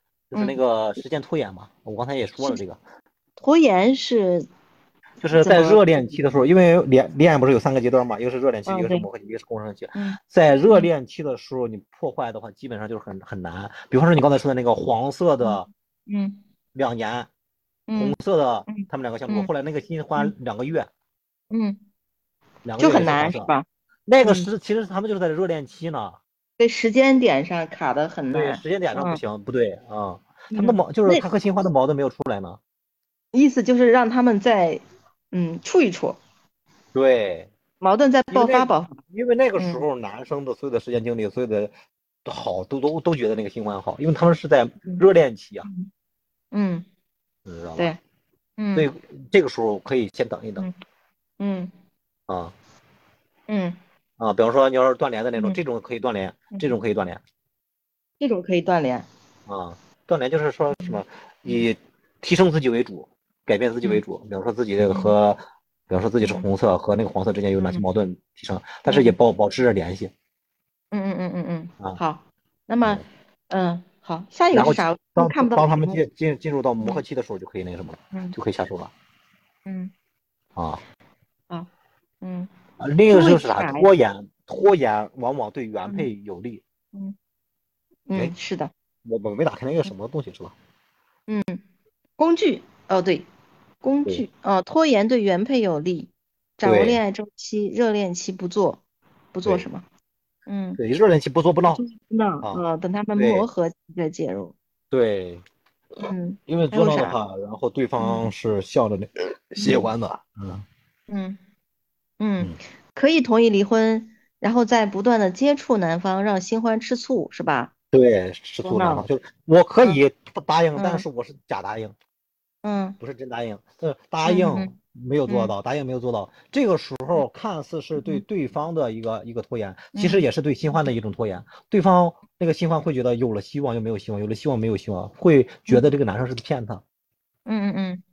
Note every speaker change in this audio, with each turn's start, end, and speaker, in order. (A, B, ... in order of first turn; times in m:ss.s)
0:00.3-0:02.8 A
0:03.4-0:04.5 B
0:05.2-0:15.7 A
0:05.3-0:05.8 B
0:08.6-0:09.1 B
0:09.9-0:10.9 B
0:15.4-0:16.4 B
0:16.7-0:17.3 A
0:17.9-0:19.5 B
0:17.9-0:20.9 A
0:21.5-0:21.8 B
0:22.6-0:23.5 A
0:22.8-0:23.6 B
0:24.1-0:26.2 A
0:24.2-0:24.5 B
0:26.6-0:29.2 B
0:28.3-0:32.6 A
0:30.5-0:31.2 B
0:33.3-0:36.2 B
0:36.9-0:37.5 A
0:37.8-0:39.0 B
0:38.3-0:41.7 A
0:39.6-0:39.8 B
0:42.2-0:45.7 A
0:46.5-0:46.8 B
0:47.4-0:47.9 A
0:48.6-0:48.9 B
0:48.7-0:50.7 A
0:51.4-0:51.7 B
0:52.3-0:52.5 A
0:53.5-0:53.8 B
0:54.2-0:57.2 A
0:55.4-0:55.6 B
0:56.5-0:56.8 B
0:58.2-0:59.1 B
0:59.5-1:10.1 A
1:00.7-1:01.6 B
1:04.8-1:05.1 B
1:06.2-1:06.4 B
1:07.6-1:07.8 B
1:08.9-1:09.2 B
1:10.9-1:16.0 B
1:14.5-1:18.9 A
1:19.6-1:19.9 B
1:20.6-1:20.8 A
1:22.2-1:22.5 B
1:22.8-1:26.6 A
1:23.1-1:23.9 B
1:28.1-1:28.7 B
1:29.0-1:30.5 A
1:31.3-1:31.6 B
1:32.2-1:33.3 B
1:33.8-1:38.8 B
1:36.6-1:37.0 A
1:39.3-1:39.8 B
1:40.5-1:40.8 B
1:40.8-1:41.8 A
1:41.7-1:44.5 B
1:43.2-1:43.5 A
1:44.9-1:45.4 A
1:46.1-1:47.2 B
1:46.5-1:50.6 A
1:48.0-1:48.3 B
1:51.1-1:51.4 B
1:52.2-1:57.7 B
1:57.9-2:01.9 A
1:58.6-1:59.0 B
2:00.8-2:01.0 B
2:02.6-2:03.0 B
2:03.0-2:16.8 A
2:04.2-2:04.8 B
2:05.3-2:05.5 B
2:08.0-2:08.2 B
2:09.9-2:10.2 B
2:17.4-2:18.0 B